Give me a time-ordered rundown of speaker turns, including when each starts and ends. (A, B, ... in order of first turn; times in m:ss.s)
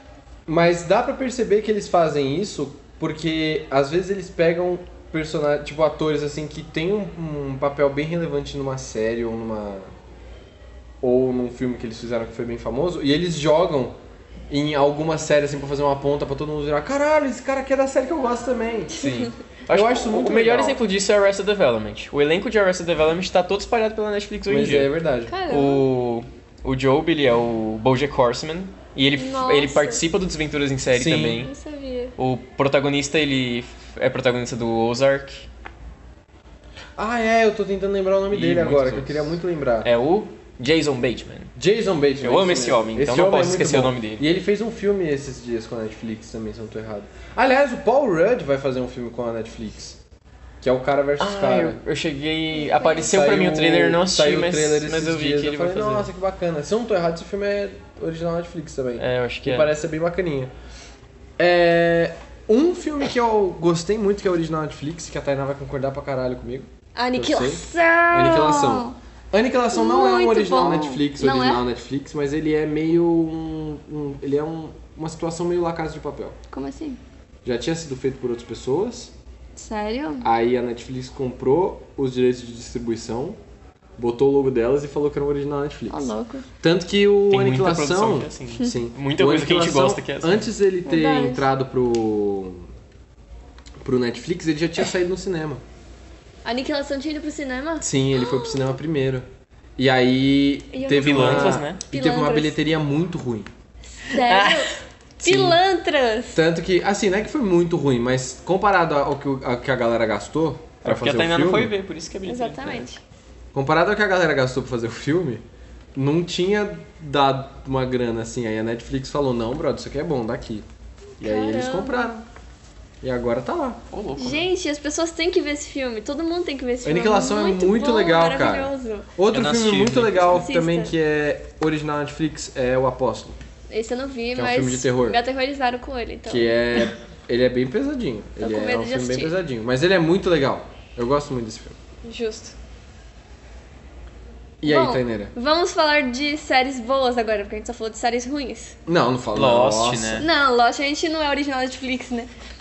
0:00.5-0:09.9 A
0:11.0-0:14.0 A
0:14.5-0:19.0 A
0:19.0-0:24.9 B
0:19.0-0:19.3 C
0:19.7-0:20.8 A
0:24.5-0:25.3 A
0:25.3-0:25.8 C
0:25.5-0:31.5 B
0:29.2-0:30.0 C
0:30.9-0:31.4 A
0:31.4-0:32.1 C
0:32.2-0:35.5 B
0:37.0-0:39.9 A
0:38.3-0:41.5 B
0:41.6-0:50.0 A
0:42.2-0:44.2 B
0:50.6-0:51.8 A
0:51.2-0:56.1 B
0:52.5-0:53.1 C
0:53.1-1:00.5 A
0:59.0-0:59.7 B
1:01.4-1:16.4 A
1:07.0-1:09.0 C
1:09.7-1:11.6 C
1:16.5-1:17.0 C
1:17.4-1:19.1 A
1:19.6-1:20.3 C
1:20.2-1:23.4 A
1:24.0-1:32.7 A
1:25.9-1:26.4 C
1:27.3-1:30.5 B
1:30.9-1:31.4 C
1:33.8-1:35.6 A
1:36.4-1:38.7 C
1:37.8-1:39.3 A
1:39.8-1:43.5 A
1:40.7-1:42.6 C
1:40.9-1:41.8 B
1:44.0-1:46.4 C
1:44.1-1:44.8 B
1:45.2-1:45.6 A
1:46.3-1:51.7 A
1:50.8-1:52.9 B
1:52.2-1:53.0 C
1:53.5-1:55.4 A
1:56.0-2:00.6 A
2:01.2-2:02.1 C
2:01.2-2:02.3 A
2:03.0-2:03.8 A
2:03.9-2:04.4 B
2:04.2-2:09.1 C
2:06.8-2:13.4 A
2:09.3-2:10.3 B
2:10.3-2:10.9 C
2:13.7-2:16.6 C
2:14.3-2:15.2 A
2:16.3-2:21.8 A
2:18.4-2:19.4 C
2:22.0-2:22.6 C
2:24.6-2:25.3 A
2:24.6-2:28.8 C
2:28.9-2:30.3 A
2:29.3-2:30.3 B
2:30.2-2:32.3 C